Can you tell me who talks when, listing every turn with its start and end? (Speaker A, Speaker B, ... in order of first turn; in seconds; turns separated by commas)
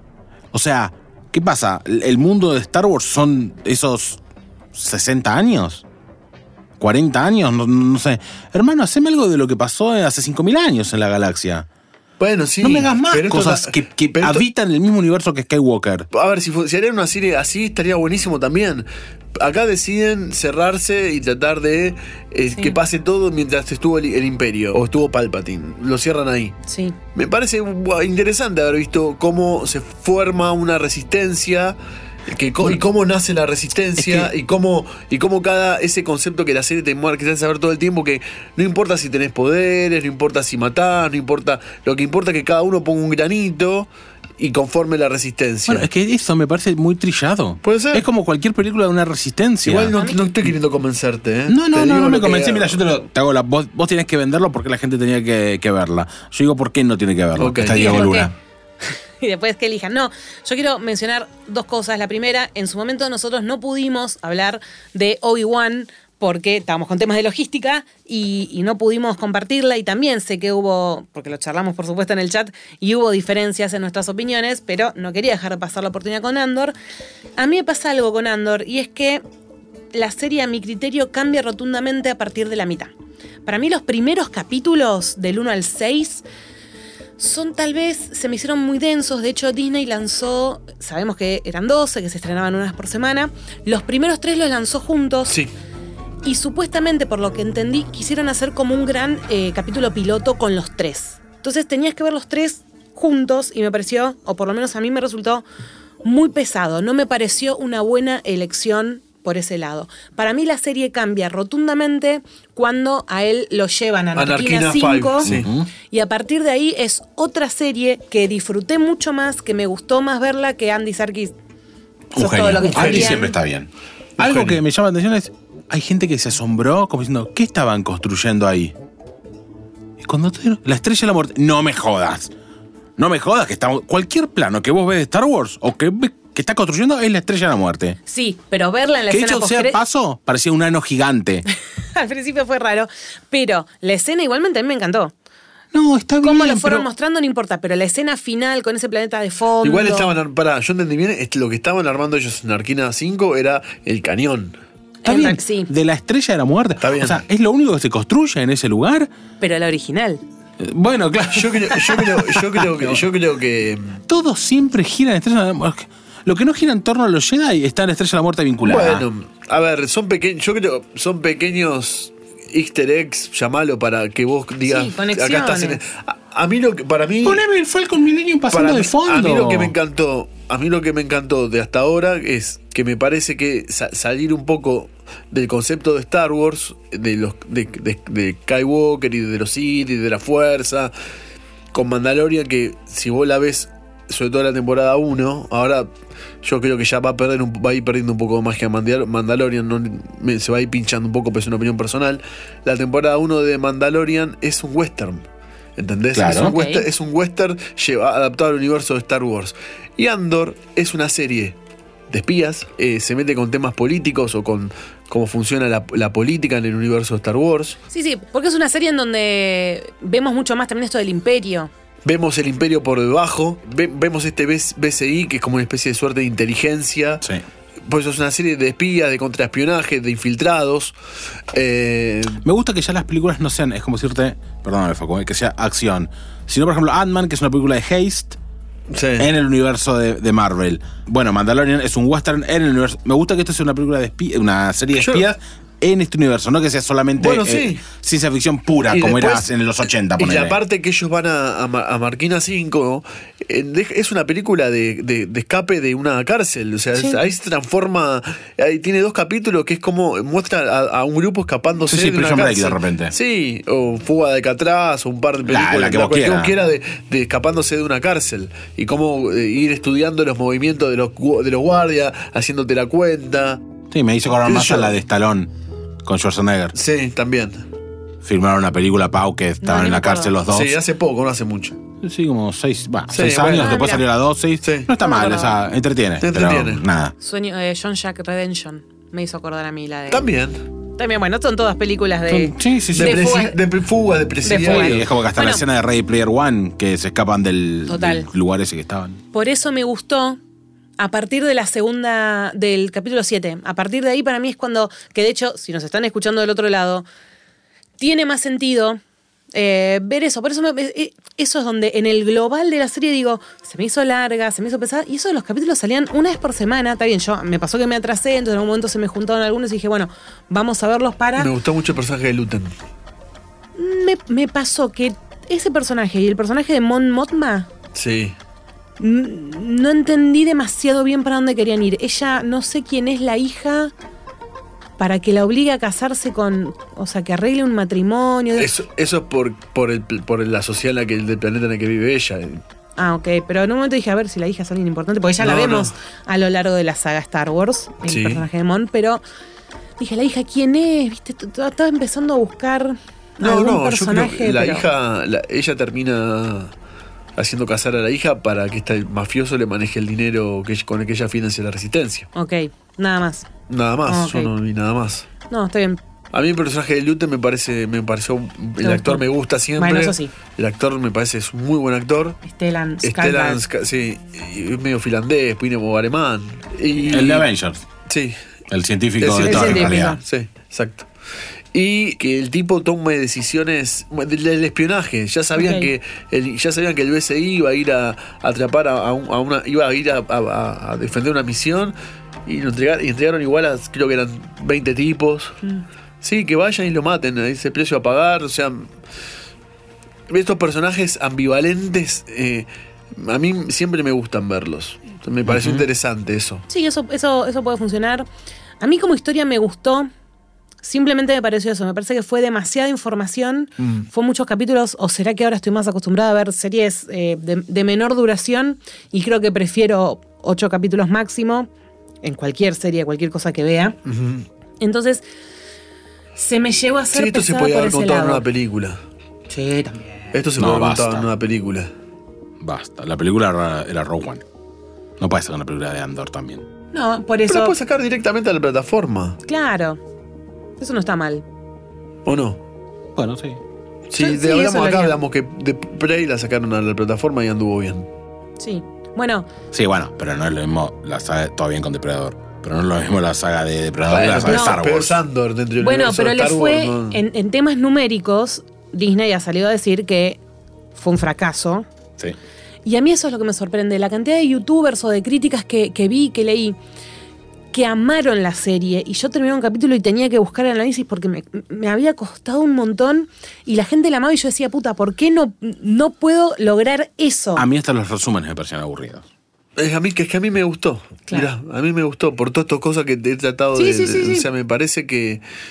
Speaker A: 0.5-4.2, Speaker A: 4.7-5.8, Speaker A: 6.8-11.7, Speaker B: 12.2-14.4, Speaker A: 12.6-16.1, Speaker B: 16.1-26.6, Speaker C: 26.7-27.0, Speaker B: 27.1-31.8, Speaker B: 32.3-45.9, Speaker A: 34.0-34.3, Speaker A: 45.7-49.9, Speaker B: 47.6-48.0, Speaker B: 49.6-52.8, Speaker C: 50.0-50.2, Speaker A: 51.5-58.3, Speaker B: 57.4-58.1, Speaker C: 57.7-58.3, Speaker C: 58.8-76.8, Speaker C: 77.4-79.2, Speaker C: 79.9-82.9, Speaker C: 83.5-86.2, Speaker C: 87.2-95.4, Speaker C: 96.2-105.4, Speaker C: 106.0-115.3, Speaker B: 114.2-115.5, Speaker A: 115.2-115.7, Speaker C: 115.9-121.3, Speaker A: 122.1-128.8, Speaker C: 122.2-123.3, Speaker B: 122.5-123.3, Speaker B: 124.2-124.6, Speaker A: 130.0-132.3, Speaker A: 133.0-138.0, Speaker C: 138.1-139.8, Speaker A: 139.1-141.4, Speaker C: 141.9-145.1, Speaker A: 145.7-146.9, Speaker C: 146.2-150.1, Speaker B: 149.6-154.6, Speaker C: 155.0-155.7, Speaker A: 155.1-159.1, Speaker B: 156.8-157.2, Speaker C: 159.4-160.2, Speaker A: 160.6-163.0, Speaker B: 161.3-164.0, Speaker A: 164.1-169.1, Speaker B: 168.6-177.4, Speaker C: 174.7-175.8, Speaker A: 177.2-179.7, Speaker B: 178.5-190.9, Speaker B: 191.7-195.9, Speaker B: 196.4-211.6, Speaker A: 206.1-206.5, Speaker C: 206.3-206.9, Speaker B: 212.1-217.8, Speaker C: 217.9-221.7, Speaker B: 222.1-227.2, Speaker B: 227.9-230.9, Speaker B: 231.5-232.4, Speaker A: 232.4-238.4, Speaker B: 238.9-239.3, Speaker A: 239.2-250.6, Speaker B: 245.0-245.2, Speaker B: 247.2-247.9, Speaker B: 248.9-249.5, Speaker B: 250.2-273.6, Speaker A: 261.9-263.1, Speaker A: 265.5-266.6, Speaker A: 273.9-275.5, Speaker B: 274.4-275.0, Speaker A: 276.1-276.8, Speaker B: 276.7-277.6, Speaker A: 278.2-280.8, Speaker C: 279.6-280.3, Speaker B: 280.5-281.8, Speaker A: 282.0-287.1, Speaker B: 283.1-283.8, Speaker C: 283.6-284.0, Speaker B: 284.6-284.9, Speaker C: 285.0-285.6, Speaker B: 286.2-286.8, Speaker C: 287.2-290.3, Speaker B: 290.1-290.6, Speaker C: 291.0-293.6, Speaker A: 292.3-293.3, Speaker B: 292.9-295.1, Speaker C: 294.4-295.6, Speaker A: 294.6-299.2, Speaker C: 297.9-298.3, Speaker C: 299.3-300.4, Speaker C: 301.0-307.1, Speaker C: 308.0-309.0, Speaker C: 309.5-321.5, Speaker B: 321.4-322.7, Speaker C: 323.8-327.7, Speaker B: 327.9-328.4, Speaker C: 329.0-333.9, Speaker C: 335.0-338.7, Speaker B: 338.6-342.6, Speaker C: 343.0-349.2, Speaker B: 345.4-345.9, Speaker B: 348.1-348.4, Speaker C: 350.0-354.9, Speaker B: 353.4-356.7, Speaker B: 357.4-362.3, Speaker C: 362.4-363.5, Speaker B: 363.7-365.3, Speaker C: 364.1-364.5, Speaker C: 365.5-366.0, Speaker B: 366.3-372.4, Speaker C: 368.8-369.2, Speaker C: 369.8-370.3, Speaker C: 372.4-373.6, Speaker B: 373.0-377.5, Speaker A: 377.1-377.9, Speaker B: 378.1-378.4, Speaker A: 378.7-380.2, Speaker B: 379.2-381.1, Speaker C: 379.4-380.2, Speaker B: 381.7-391.9, Speaker C: 385.6-385.9, Speaker B: 392.5-395.6, Speaker B: 396.2-398.9, Speaker B: 400.3-406.6, Speaker A: 405.5-405.9, Speaker C: 406.7-408.3, Speaker C: 408.8-410.1, Speaker C: 410.8-421.7, Speaker B: 413.8-414.1, Speaker C: 422.2-424.0, Speaker B: 424.1-424.5, Speaker C: 424.8-425.2, Speaker C: 426.4-428.4, Speaker B: 427.1-429.0, Speaker C: 429.5-430.2, Speaker B: 430.3-431.9, Speaker A: 430.6-431.3, Speaker A: 432.6-434.4, Speaker A: 435.2-436.6, Speaker C: 436.9-437.8, Speaker B: 437.5-439.4, Speaker C: 439.5-440.0, Speaker C: 440.8-441.4, Speaker B: 442.3-442.6, Speaker A: 443.2-443.6, Speaker B: 444.1-448.1, Speaker C: 444.2-445.2, Speaker C: 448.6-449.5, Speaker A: 449.7-455.2, Speaker B: 454.1-457.2, Speaker C: 454.4-454.8, Speaker C: 455.8-460.4, Speaker C: 460.9-461.9, Speaker C: 462.9-466.8, Speaker C: 467.7-477.6, Speaker A: 477.6-479.2, Speaker B: 479.8-485.4, Speaker C: 483.8-484.5